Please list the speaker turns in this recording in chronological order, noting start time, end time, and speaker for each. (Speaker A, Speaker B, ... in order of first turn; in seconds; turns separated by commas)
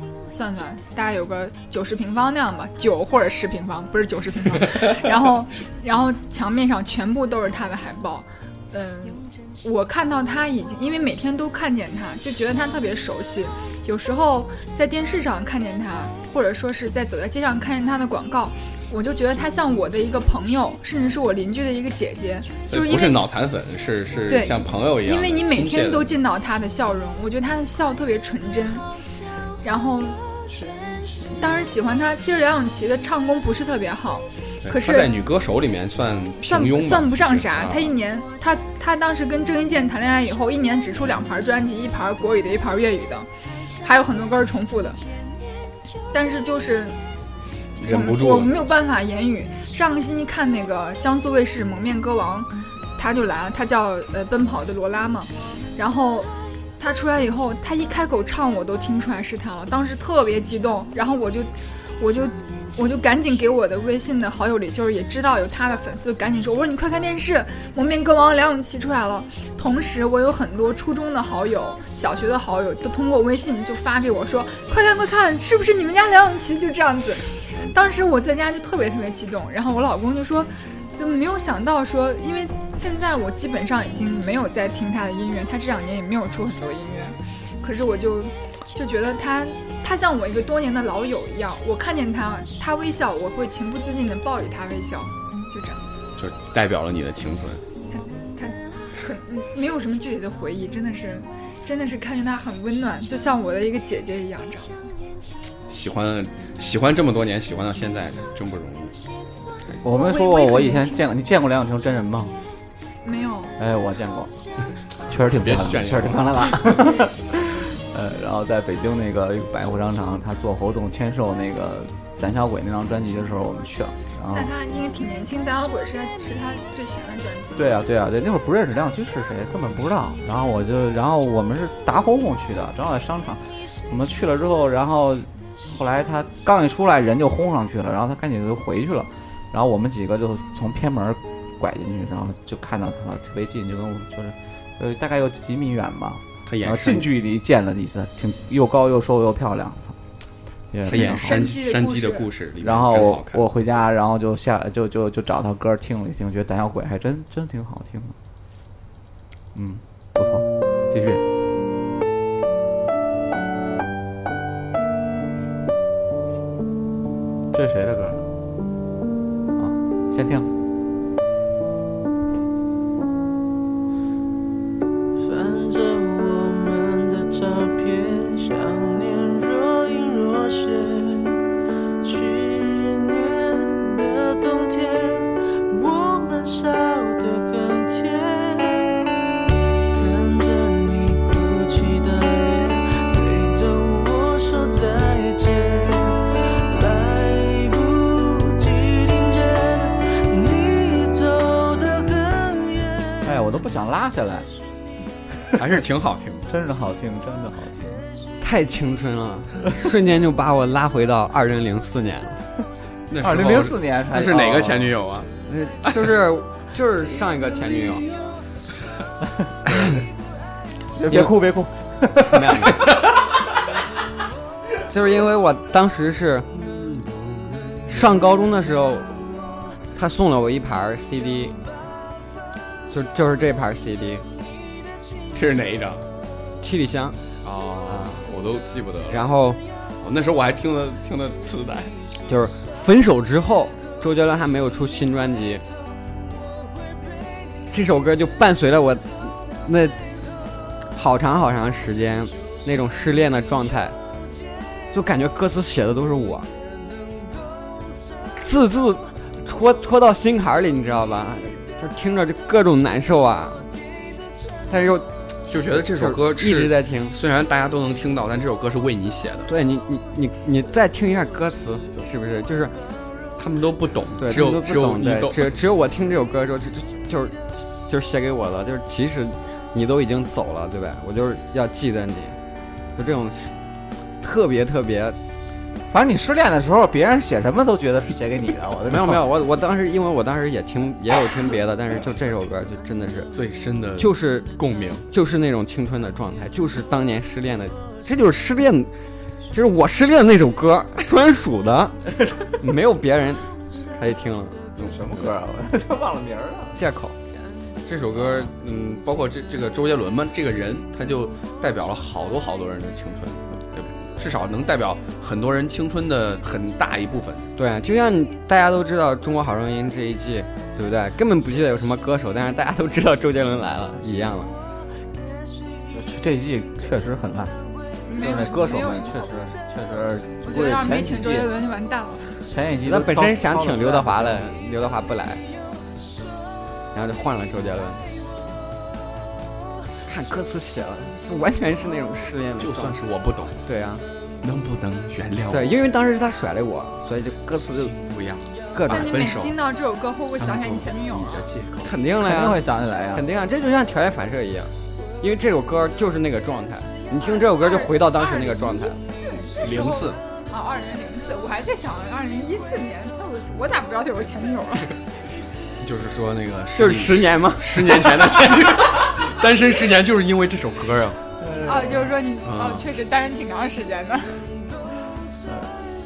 Speaker A: 0.3-23.2, Speaker B: 22.7-26.1, Speaker A: 24.3-28.9, Speaker A: 29.6-30.2, Speaker A: 31.3-35.1, Speaker B: 34.6-37.9, Speaker A: 36.4-43.3, Speaker A: 43.8-45.0, Speaker A: 46.1-47.0, Speaker B: 47.8-48.5, Speaker A: 47.9-95.9, Speaker B: 96.2-97.6, Speaker A: 97.9-104.8, Speaker B: 105.7-109.0, Speaker C: 109.8-112.3, Speaker A: 109.9-111.0, Speaker A: 113.0-113.5, Speaker C: 113.6-114.4, Speaker C: 115.1-124.5, Speaker B: 115.2-116.7, Speaker A: 124.3-127.8, Speaker C: 127.5-150.0, Speaker B: 146.4-147.1, Speaker C: 150.7-151.5, Speaker B: 150.9-153.4, Speaker A: 150.9-152.3, Speaker C: 152.6-158.1, Speaker C: 159.5-161.2, Speaker C: 167.5-168.2, Speaker C: 169.6-170.5, Speaker D: 175.2-181.4, Speaker D: 182.0-189.0, Speaker D: 189.9-203.3, Speaker C: 203.2-204.5, Speaker B: 205.5-206.5, Speaker C: 206.5-208.1, Speaker E: 208.4-212.4, Speaker B: 213.1-215.3, Speaker C: 213.2-214.9, Speaker E: 215.5-218.1, Speaker C: 220.9-222.8, Speaker E: 222.3-222.8, Speaker E: 224.9-226.5, Speaker E: 227.9-229.1, Speaker E: 229.9-231.6, Speaker E: 232.9-234.2, Speaker B: 235.3-236.1, Speaker E: 236.6-237.2, Speaker B: 237.4-239.3, Speaker E: 237.8-238.2, Speaker E: 239.1-239.6, Speaker B: 240.0-242.0, Speaker E: 242.3-245.6, Speaker E: 247.7-250.0, Speaker E: 250.9-253.9, Speaker E: 254.9-256.5, Speaker E: 258.4-263.6, Speaker E: 264.7-265.1, Speaker B: 265.5-269.5, Speaker E: 265.8-267.1, Speaker E: 269.5-272.7, Speaker B: 273.4-275.5, Speaker E: 274.2-282.4, Speaker E: 282.9-283.5, Speaker E: 284.2-285.2, Speaker C: 285.9-289.2, Speaker E: 288.9-293.3, Speaker B: 293.3-295.1, Speaker E: 294.0-294.5, Speaker E: 295.1-298.9, Speaker E: 299.5-302.0, Speaker E: 302.6-304.6, Speaker B: 304.8-305.2, Speaker C: 304.8-306.8, Speaker E: 306.7-307.1, Speaker B: 307.9-317.4, Speaker E: 308.1-308.5, Speaker E: 317.6-324.5, Speaker C: 325.9-327.5, Speaker A: 328.1-329.4, Speaker C: 328.1-331.5, Speaker A: 330.4-332.4, Speaker C: 332.5-334.4, Speaker E: 332.8-335.4, Speaker E: 336.9-338.0, Speaker E: 340.1-342.9, Speaker B: 342.6-343.6, Speaker E: 343.6-344.0, Speaker B: 344.4-345.7, Speaker E: 345.5-347.9, Speaker B: 347.8-349.5, Speaker E: 348.7-349.1, Speaker A: 348.9-351.4, Speaker B: 350.4-351.9, Speaker E: 351.8-352.6, Speaker C: 352.2-353.2, Speaker E: 353.1-359.0, Speaker A: 357.2-364.9, Speaker B: 359.6-360.2, Speaker B: 365.8-371.2, Speaker E: 366.7-368.3, Speaker C: 371.4-372.1, Speaker A: 371.6-374.4, Speaker B: 372.4-372.8